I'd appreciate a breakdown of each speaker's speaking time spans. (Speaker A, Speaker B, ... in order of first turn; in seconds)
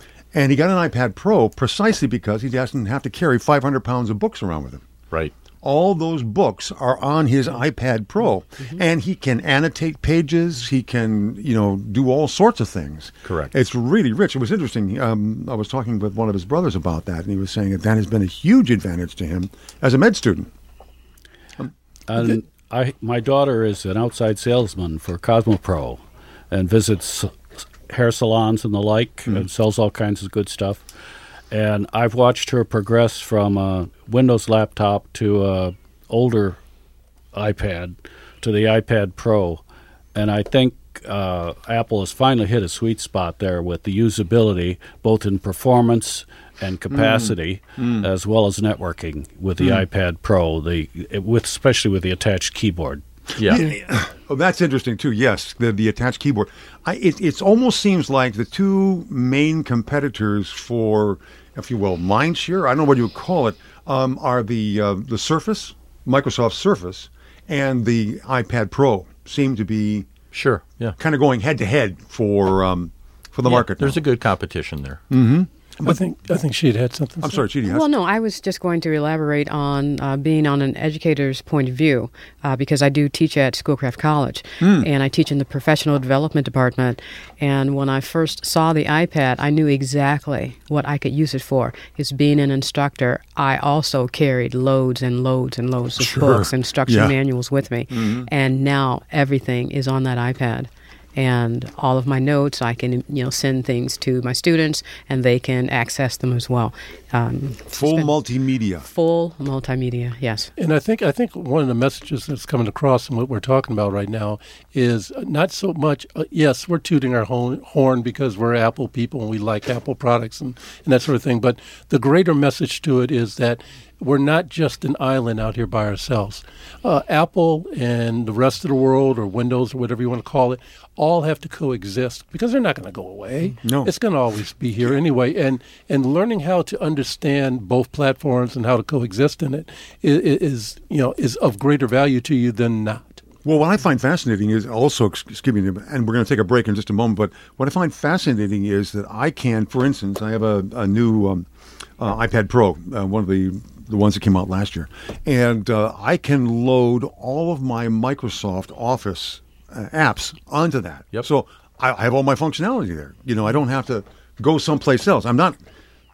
Speaker A: 0.3-4.8, 5.6-20.5, 46.9-48.1, 53.4-70.1, 71.0-74.0, 75.1-76.0, 77.2-77.9, 84.6-84.9, 96.0-97.1, 97.9-98.3, 107.7-108.9, 133.6-133.9, 143.4-151.5, 152.0-165.6
Speaker B: 13.2-13.5, 53.4-53.6, 70.3-71.0, 73.4-75.0
Speaker C: 22.1-27.4, 27.9-30.8, 31.5-36.6, 37.3-39.6, 40.1-53.0
Speaker D: 75.8-77.4, 110.6-143.2
Speaker E: 77.7-108.1, 108.8-110.5